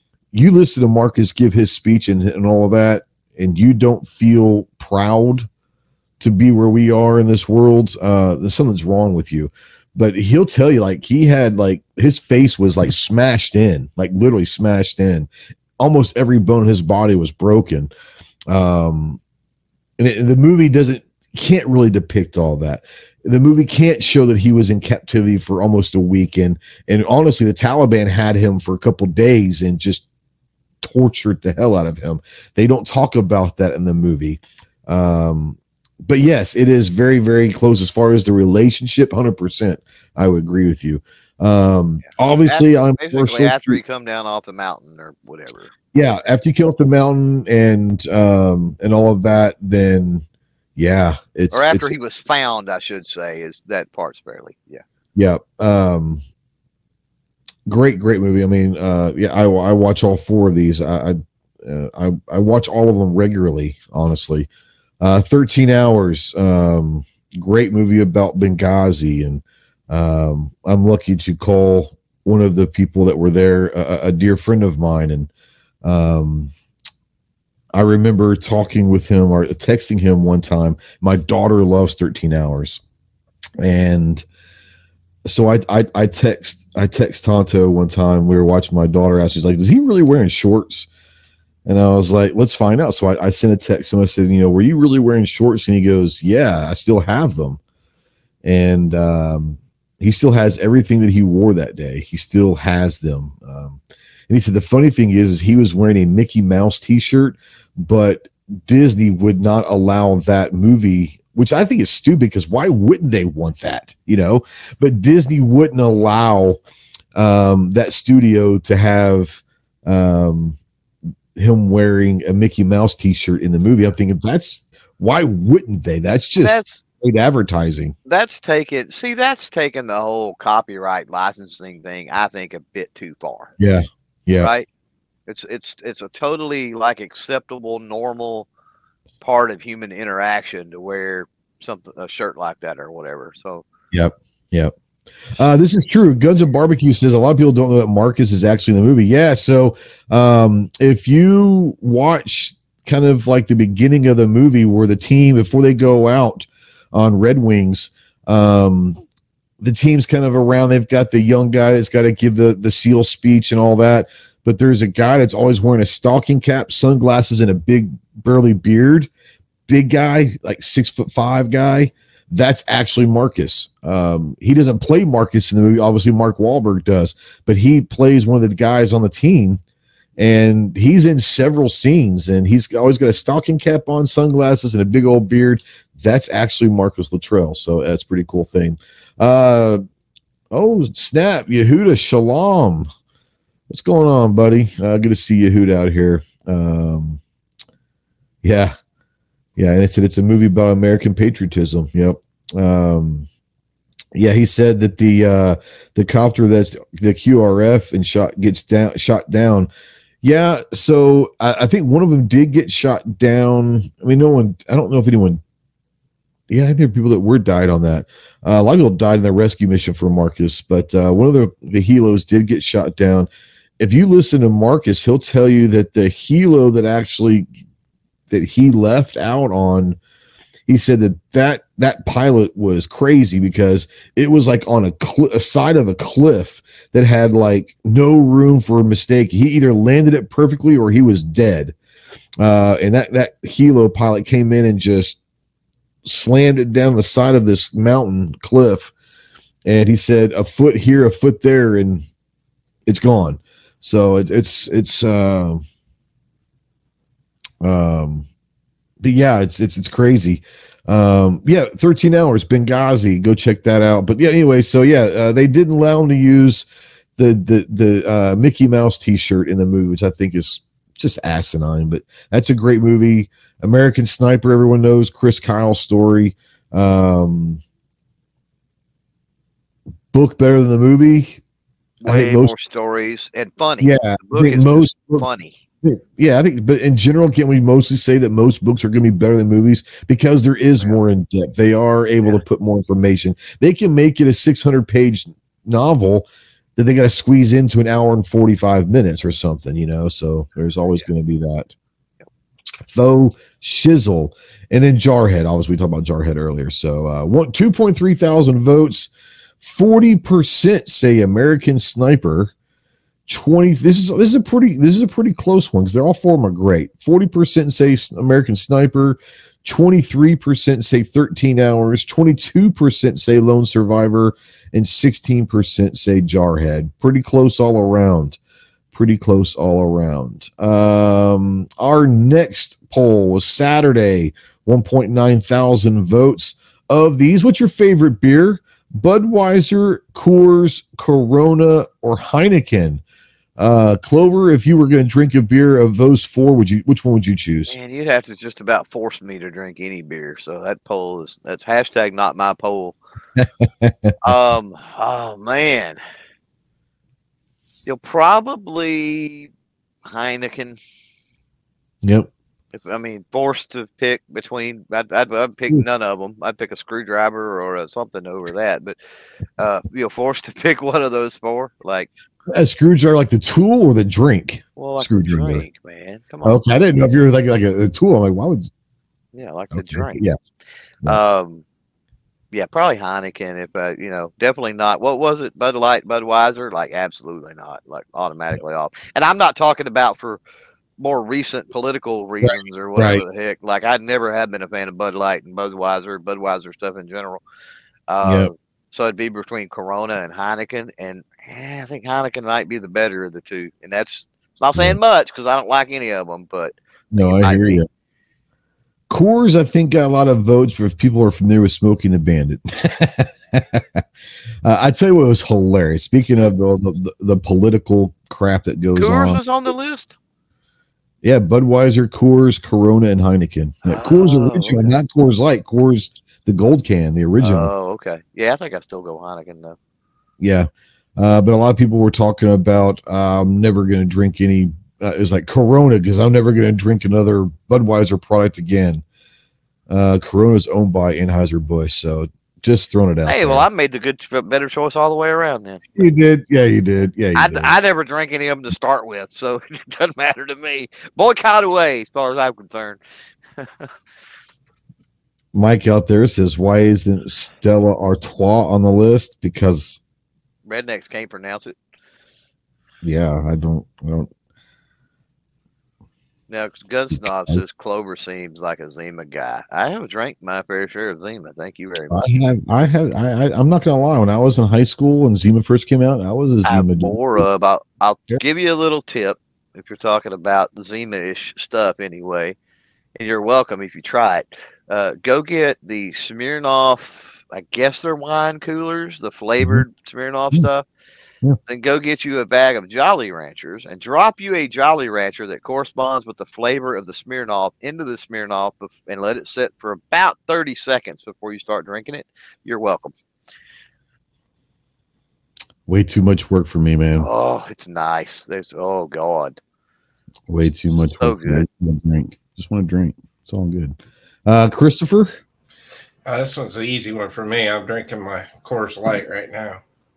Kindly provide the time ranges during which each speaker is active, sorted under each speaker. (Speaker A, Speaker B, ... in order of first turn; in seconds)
Speaker A: 0.3-5.5, 6.2-17.9, 18.5-19.2, 20.0-30.1, 30.8-43.8, 45.9-50.2, 50.8-51.9, 55.1-56.2, 57.6-64.5, 65.0-75.3, 75.8-76.5, 77.7-82.8, 83.6-84.2, 85.2-90.9, 91.7-97.6, 98.4-116.6, 117.1-120.6, 121.3-127.9, 133.6-134.5, 143.9-144.7, 145.3-159.0, 159.6-169.1, 169.7-179.6, 180.2-189.8, 190.5-192.9, 193.7-197.2, 198.4-198.7, 199.6-203.3, 204.1-209.7, 210.2-215.4, 216.5-227.5, 228.3-230.0, 230.7-241.8, 242.4-245.2, 246.0-248.9, 249.7-252.0, 252.8-255.6, 257.6-258.2, 259.0-277.6, 280.1-281.4, 282.1-282.5, 283.8-285.3, 285.8-301.7, 302.9-309.1, 309.6-312.5, 313.3-328.4, 328.9-343.0, 343.6-347.7, 353.4-354.1, 362.0-362.3, 372.5-375.6, 376.4-378.7, 379.7-380.4, 392.4-393.2, 398.2-398.5, 407.1-407.9, 409.1-414.0, 414.6-419.4, 421.2-427.7, 430.4-439.0, 439.9-443.6, 445.9-447.7, 455.5-460.0, 463.0-464.3, 467.1-467.7, 472.1-477.5, 505.9-507.3, 510.5-515.3
Speaker B: 42.4-45.7, 51.5-54.8, 126.4-126.8, 128.1-133.5, 134.4-134.7, 135.3-138.5, 139.2-143.6, 282.0-285.6, 347.7-353.0, 354.2-356.0, 357.9-359.5, 360.1-360.8, 362.7-369.0, 369.6-372.1, 374.8-376.6, 379.3-380.2, 381.1-381.6, 382.5-390.4, 391.0-397.4, 398.1-407.8, 418.9-420.1, 423.9-425.0, 427.4-429.8, 443.2-445.8, 447.3-453.0, 453.6-453.9, 460.7-461.7, 466.5-472.3, 476.6-482.6, 483.2-490.9, 491.7-503.1, 507.1-509.6, 511.1-511.6
Speaker C: 516.2-519.8